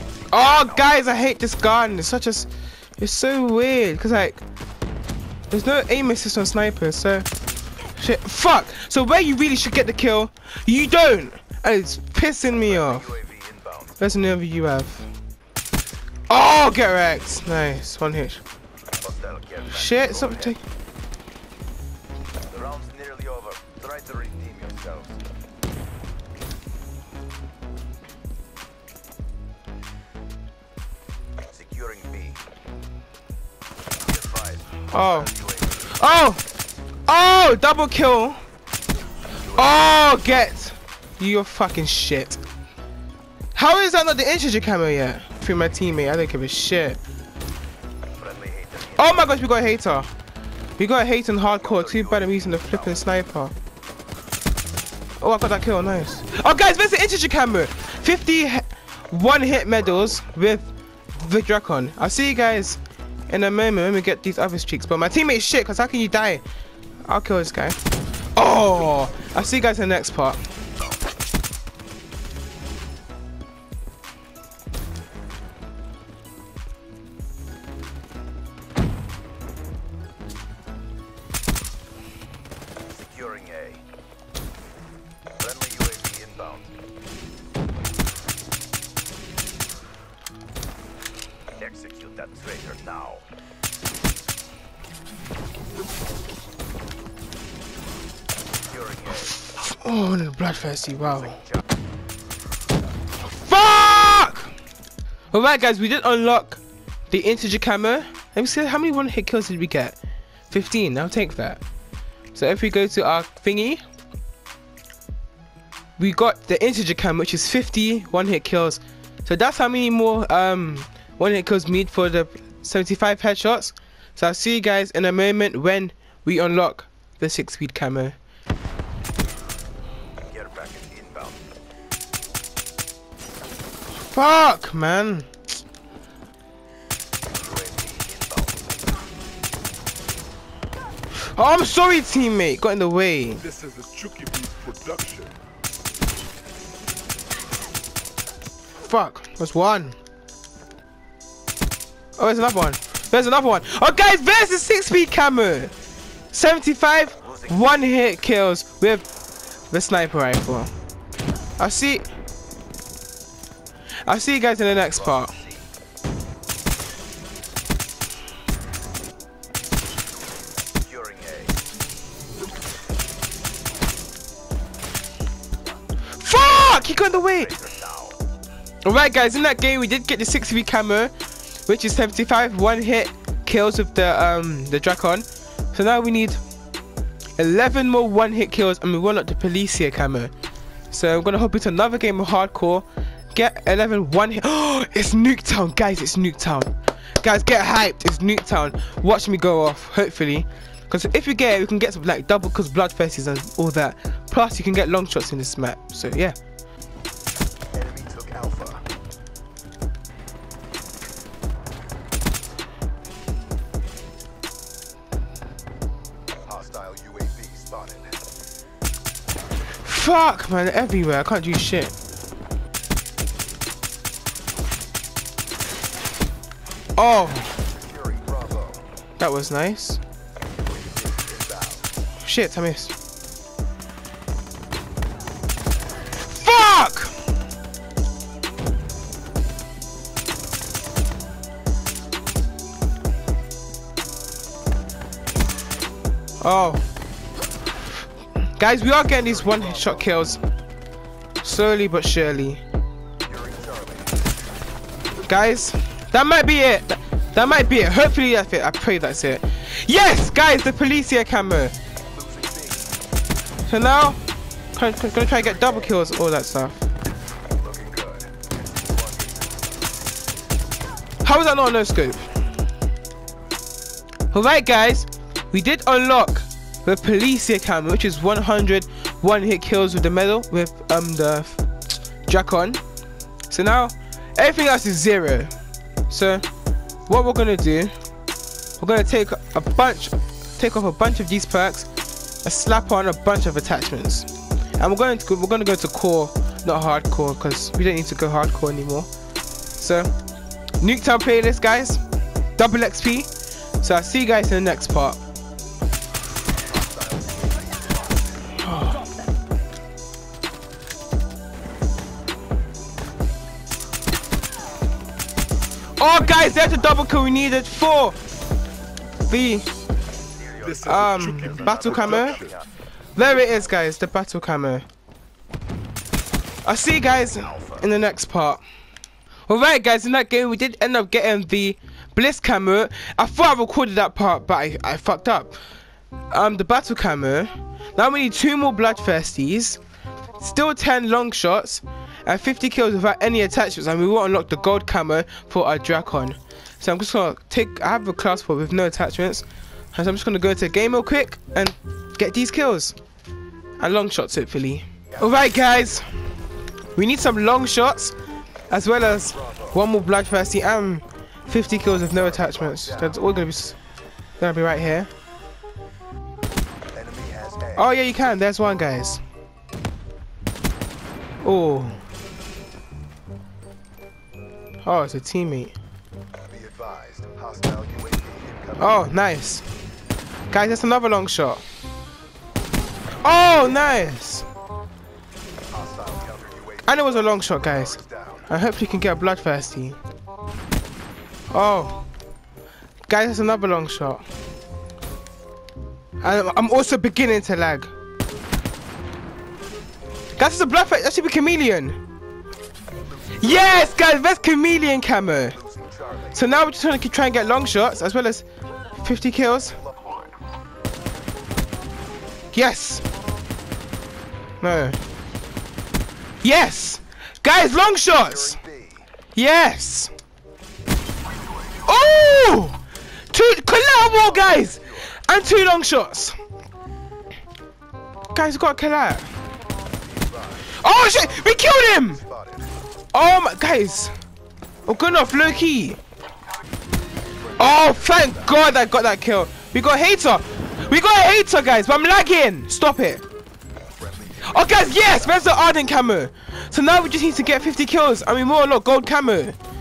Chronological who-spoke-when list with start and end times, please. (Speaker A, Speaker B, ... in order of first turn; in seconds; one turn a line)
Speaker A: 0.3-4.4
Speaker A: 5.5-7.3
Speaker A: 8.0-13.2
Speaker B: 12.9-13.7
Speaker A: 14.0-15.1
Speaker A: 16.3-18.4
Speaker B: 19.0-20.5
Speaker A: 19.7-20.6
Speaker B: 22.5-25.2
Speaker B: 31.5-32.4
Speaker B: 34.1-34.8
Speaker A: 34.9-36.4
Speaker A: 37.1-38.4
Speaker A: 39.5-42.4
Speaker A: 43.5-47.0
Speaker B: 48.2-48.8
Speaker A: 49.0-50.1
Speaker A: 50.8-53.5
Speaker A: 55.2-66.4
Speaker A: 67.0-67.8
Speaker A: 68.3-70.4
Speaker B: 83.0-83.8
Speaker B: 85.4-86.7
Speaker B: 91.6-93.2
Speaker A: 99.0-101.4
Speaker A: 103.2-104.5
Speaker A: 105.3-110.0
Speaker A: 110.5-111.6
Speaker A: 112.3-113.8
Speaker A: 116.0-128.2
Speaker B: 130.3-131.4
Speaker A: 134.1-135.3
Speaker B: 137.4-138.5
Speaker A: 141.2-143.4
Speaker C: 143.4-145.4
Speaker A: 148.8-150.0
Speaker A: 152.2-155.7
Speaker A: 156.3-159.1
Speaker A: 159.7-160.7
Speaker A: 161.6-162.1
Speaker A: 164.1-165.4
Speaker B: 170.8-171.5
Speaker A: 176.2-177.7
Speaker B: 177.8-178.2
Speaker A: 178.8-181.1
Speaker A: 181.7-186.4
Speaker A: 187.4-190.3
Speaker A: 190.9-206.4
Speaker B: 207.7-208.9
Speaker B: 216.4-218.2
Speaker A: 219.8-221.9
Speaker A: 227.0-227.5
Speaker B: 227.6-228.8
Speaker A: 229.2-230.0
Speaker B: 230.7-231.8
Speaker A: 232.2-232.9
Speaker A: 236.2-237.1
Speaker A: 246.4-246.8
Speaker A: 248.6-250.4
Speaker B: 249.5-249.9
Speaker A: 251.4-252.6
Speaker B: 253.3-254.3
Speaker A: 255.2-261.8
Speaker B: 262.3-262.9
Speaker A: 263.7-264.2
Speaker A: 264.7-266.9
Speaker B: 267.6-269.7
Speaker A: 271.2-272.3
Speaker A: 274.3-281.6
Speaker A: 282.3-282.8
Speaker A: 283.5-285.5
Speaker A: 286.1-286.4
Speaker A: 287.1-287.9
Speaker A: 288.8-291.9
Speaker A: 292.4-299.1
Speaker A: 299.8-300.1
Speaker A: 300.8-302.0
Speaker A: 302.6-303.3
Speaker A: 303.8-305.2
Speaker B: 306.7-308.2
Speaker A: 308.6-309.1
Speaker A: 316.0-318.2
Speaker A: 319.3-319.7
Speaker C: 320.6-322.6
Speaker A: 320.8-322.4
Speaker B: 322.1-322.6
Speaker A: 323.2-324.9
Speaker A: 326.6-328.6
Speaker A: 329.5-335.6
Speaker A: 336.3-339.8
Speaker A: 340.4-353.0
Speaker A: 353.8-356.1
Speaker A: 356.9-358.1
Speaker A: 358.7-363.8
Speaker B: 362.5-362.8
Speaker A: 364.4-365.1
Speaker B: 366.9-367.8
Speaker A: 367.8-369.2
Speaker A: 371.4-372.0
Speaker A: 374.9-375.8
Speaker B: 376.5-378.8
Speaker A: 378.8-379.6
Speaker A: 380.5-381.6
Speaker A: 383.2-384.5
Speaker B: 385.7-388.4
Speaker A: 386.9-390.0
Speaker A: 391.5-392.0
Speaker A: 393.1-394.2
Speaker A: 396.2-397.9
Speaker A: 400.4-402.0
Speaker A: 403.4-405.6
Speaker B: 405.6-406.3
Speaker A: 406.3-408.5
Speaker A: 409.0-409.8
Speaker A: 412.5-413.0
Speaker A: 414.6-415.0
Speaker A: 416.4-418.6
Speaker B: 418.2-419.1
Speaker A: 419.4-420.1
Speaker A: 421.8-422.8
Speaker A: 423.3-426.3
Speaker A: 428.3-429.3
Speaker B: 430.1-430.8
Speaker A: 430.7-432.2
Speaker B: 431.4-432.6
Speaker A: 433.1-434.1
Speaker A: 434.9-436.0
Speaker A: 437.6-443.2
Speaker B: 437.6-438.3
Speaker B: 444.0-445.2
Speaker A: 444.5-449.6